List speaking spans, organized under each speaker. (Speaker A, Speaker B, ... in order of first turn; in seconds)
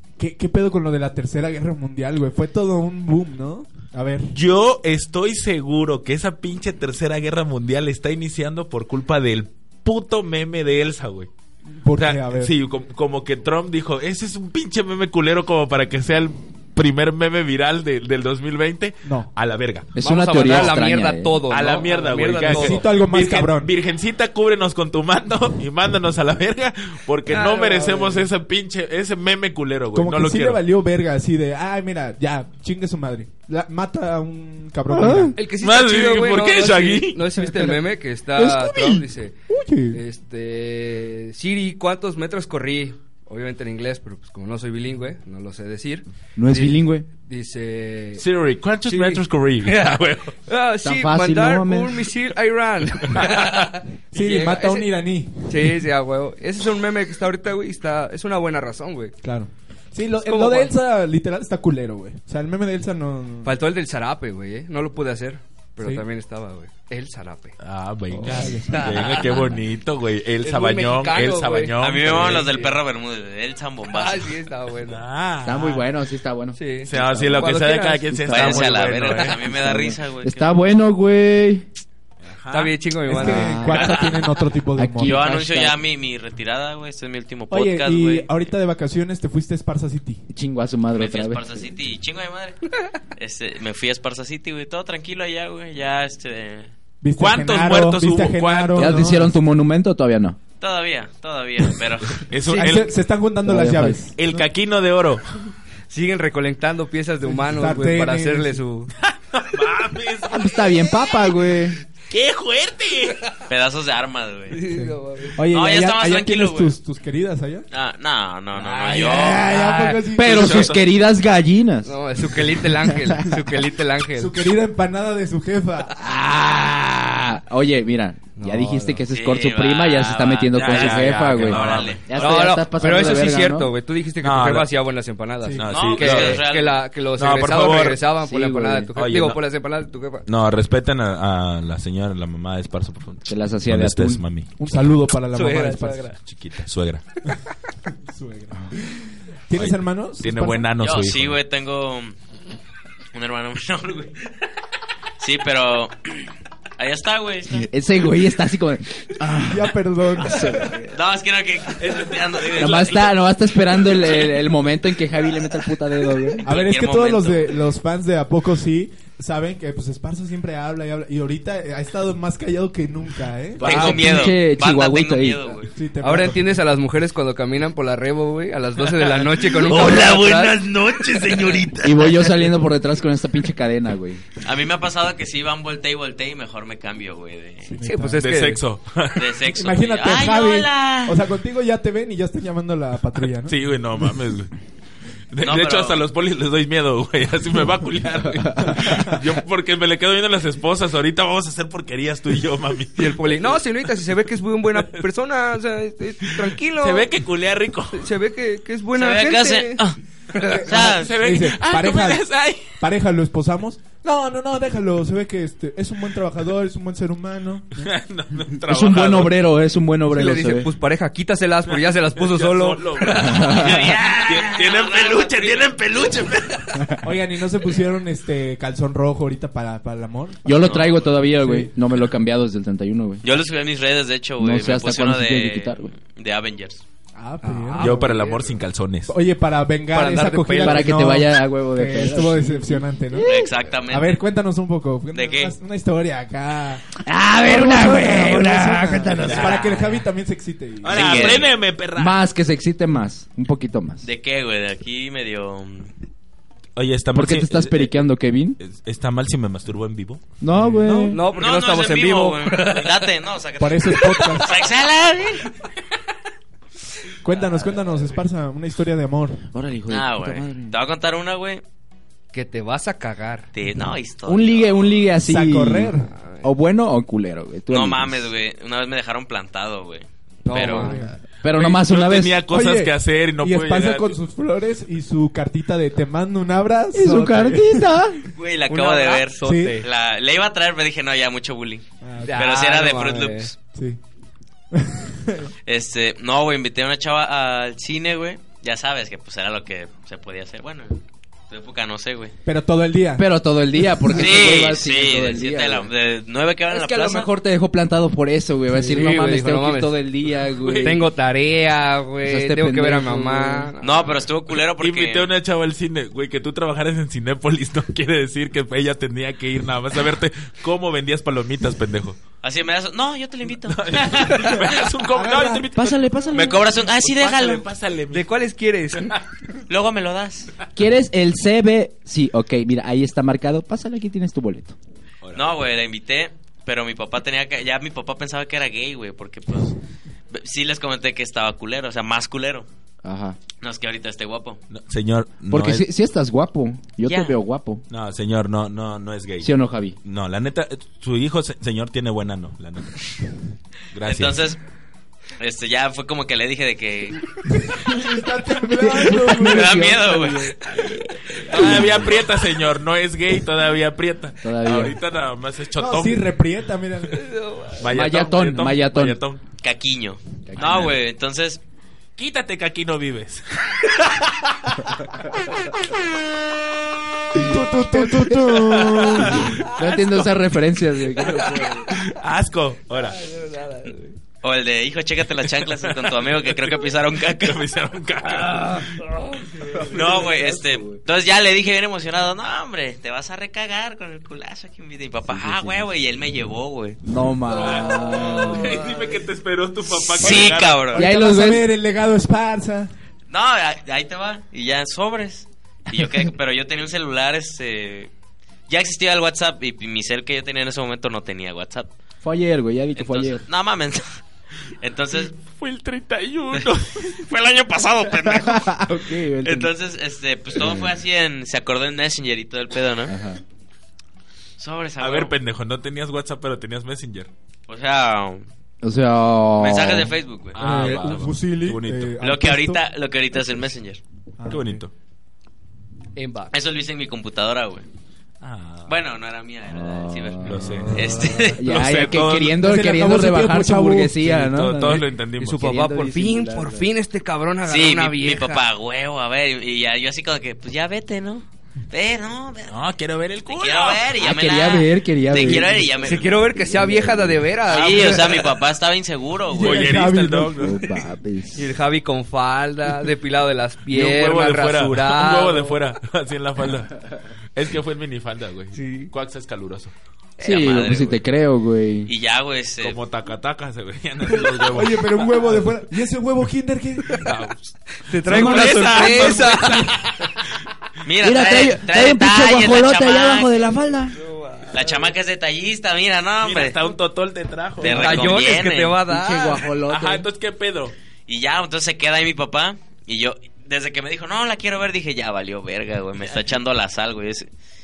Speaker A: 0.2-4.3, 11.8-12.5, 19.0-19.3, 22.5-23.7, 27.3-27.6, 29.9-35.4, 38.4-40.0, 54.1-55.8, 59.2-63.6, 65.8-66.0, 68.2-68.9, 83.1-85.2, 87.5-90.2, 97.0-99.3, 102.5-104.4, 107.2-108.6, 114.7-117.7, 118.6-120.8, 124.1-126.0, 144.6-146.1, 147.9-150.6, 159.4-160.7, 166.4-174.0, 175.7-176.6, 187.7-188.3, 189.4-193.5, 210.6-217.9, 227.0-230.7, 231.3-231.7, 237.1-238.3, 239.1-243.3, 243.9-246.8, 247.4-251.4, 260.5-261.1, 263.6-264.7, 267.2-269.4, 275.2-276.1, 280.6-281.1, 282.5-288.0, 289.4-289.8, 292.0-292.5, 293.7-294.0, 294.7-295.5, 302.4-303.3, 325.1-325.6, 357.5-359.9, 365.8-367.3, 377.3-379.5, 400.2-402.9, 430.6-432.8, 434.4-434.8, 442.6-444.6, 459.5-460.7, 474.6-477.3
Speaker B: 4.3-11.3, 11.9-20.8, 21.5-30.6, 35.6-37.2, 48.2-50.3, 53.1-53.5, 67.6-72.5, 74.8-75.8, 76.9-79.4, 82.2-82.8, 97.2-99.2, 102.2-102.9, 104.2-105.5, 109.0-110.9, 112.1-113.3, 130.5-132.0, 134.2-134.7, 135.6-136.5, 137.2-138.0, 139.0-139.4, 140.3-144.6, 146.2-147.0, 149.5-151.4, 179.2-182.4, 188.2-189.3, 193.4-194.5, 195.3-203.6, 204.7-205.0, 206.2-208.1, 210.6-212.8, 217.8-219.3, 221.7-227.0, 230.7-231.0, 237.8-239.1, 249.2-249.6, 250.8-252.2, 256.8-257.9, 258.6-260.2, 281.4-284.1, 310.6-311.0, 314.8-322.2, 323.6-328.3, 335.2-335.6, 344.7-345.9, 347.9-353.2, 353.9-354.4, 361.4-366.3, 367.8-369.4, 372.2-374.1, 378.4-379.6, 381.9-383.3, 385.6-389.1, 397.5-400.9, 415.2-417.2, 425.0-427.3, 430.5-432.1, 434.5-434.9, 438.4-439.0, 440.4-442.6, 444.4-445.6, 452.7-454.1, 459.5-460.9, 463.9-469.9, 472.8-475.6, 477.2-480.4, 486.4-488.4, 489.9-490.9
Speaker C: 19.9-21.4, 34.9-35.3, 46.4-47.0, 50.8-52.1, 75.4-77.5, 78.1-78.6, 79.3-81.7, 83.2-84.0, 84.7-85.8, 90.3-91.7, 98.7-100.4, 103.4-104.1, 110.3-111.8, 119.1-122.0, 126.0-133.7, 138.2-138.9, 143.3-144.2, 157.5-160.9, 162.5-166.5, 173.6-175.5, 181.8-184.2, 198.4-199.0, 218.6-220.7, 223.2-223.9, 230.4-233.2, 234.4-235.9, 240.6-243.4, 247.0-249.8, 251.9-254.0, 257.1-258.6, 260.4-261.2, 269.5-270.7, 274.2-278.3, 281.4-282.4, 286.9-288.2, 303.2-305.9, 306.7-311.0, 312.2-313.7, 325.7-326.6, 330.8-334.8, 343.0-343.4, 345.5-347.8, 349.4-350.0, 358.6-360.7, 361.6-361.9, 364.4-365.0, 367.8-369.2, 370.5-371.0, 377.4-378.4, 378.9-381.9, 389.9-391.0, 395.3-395.8, 397.0-398.9, 400.9-401.7, 412.2-413.4, 418.2-419.7, 420.5-420.9, 423.1-423.4, 428.8-430.1, 439.7-446.9, 454.2-457.4, 460.6-461.7, 470.4-472.1, 478.2-479.4, 481.2-484.2, 489.1-490.3
Speaker D: 20.0-22.9, 27.3-28.2, 35.3-39.3, 39.9-48.2, 48.9-54.9, 55.5-59.1, 60.2-60.7, 63.4-67.5, 68.1-69.5, 70.4-72.8, 73.8-75.0, 76.5-78.7, 82.5-83.7, 102.5-102.8, 105.9-108.9, 114.5-115.4, 121.8-124.4, 128.3-129.0, 132.1-140.2, 145.3-146.2, 176.0-180.6, 187.8-188.6, 203.0-207.1, 207.9-210.6, 220.1-223.5, 237.4-238.5, 239.9-241.0, 260.9-262.9, 272.3-273.5, 276.1-276.4, 280.4-281.1, 288.7-289.9, 292.2-293.5, 308.8-309.9, 310.8-314.2, 328.1-329.2, 367.1-367.8, 379.6-380.0, 383.0-384.2, 388.5-389.9, 436.1-436.5, 445.4-448.6, 455.5-458.6, 461.5-465.8, 468.7-469.1, 478.1-480.0, 484.1-485.1, 487.8-489.7
Speaker E: 71.8-74.3, 78.3-80.6, 83.7-84.3, 85.0-88.3, 90.9-92.6, 93.2-96.7, 100.6-102.2, 113.5-114.6, 115.5-116.8, 117.7-119.6, 129.1-132.0, 135.7-136.8, 150.8-152.2, 153.1-154.2, 155.2-157.7, 160.8-163.2, 166.4-167.6, 173.6-175.7, 184.4-187.7, 189.1-191.2, 195.4-196.0, 208.9-211.1, 223.3-226.0, 233.2-236.8, 243.1-244.2, 245.1-245.6, 250.8-251.5, 254.0-255.9, 261.3-265.5, 269.9-271.6, 273.5-275.0, 277.7-280.9, 288.3-293.5, 295.6-302.3, 304.1-307.3, 313.8-315.3, 322.4-324.6, 326.3-327.6, 329.7-330.5, 335.3-339.8, 340.3-342.7, 343.6-344.6, 347.1-347.3, 354.0-354.6, 355.4-357.2, 359.3-361.8, 369.6-371.6, 384.4-387.6, 389.9-397.0, 399.9-401.1, 403.3-408.1, 408.7-411.9, 412.9-414.2, 414.8-415.3, 416.5-418.9, 419.4-423.1, 424.6-425.3, 427.7-428.4, 429.6-431.1, 432.2-434.0, 436.5-437.9, 438.9-441.6, 447.6-452.8, 453.5-456.3, 457.7-459.9, 470.4-471.2, 472.1-473.0, 481.0-483.5, 484.7-486.8, 487.8-489.0, 491.3-497.4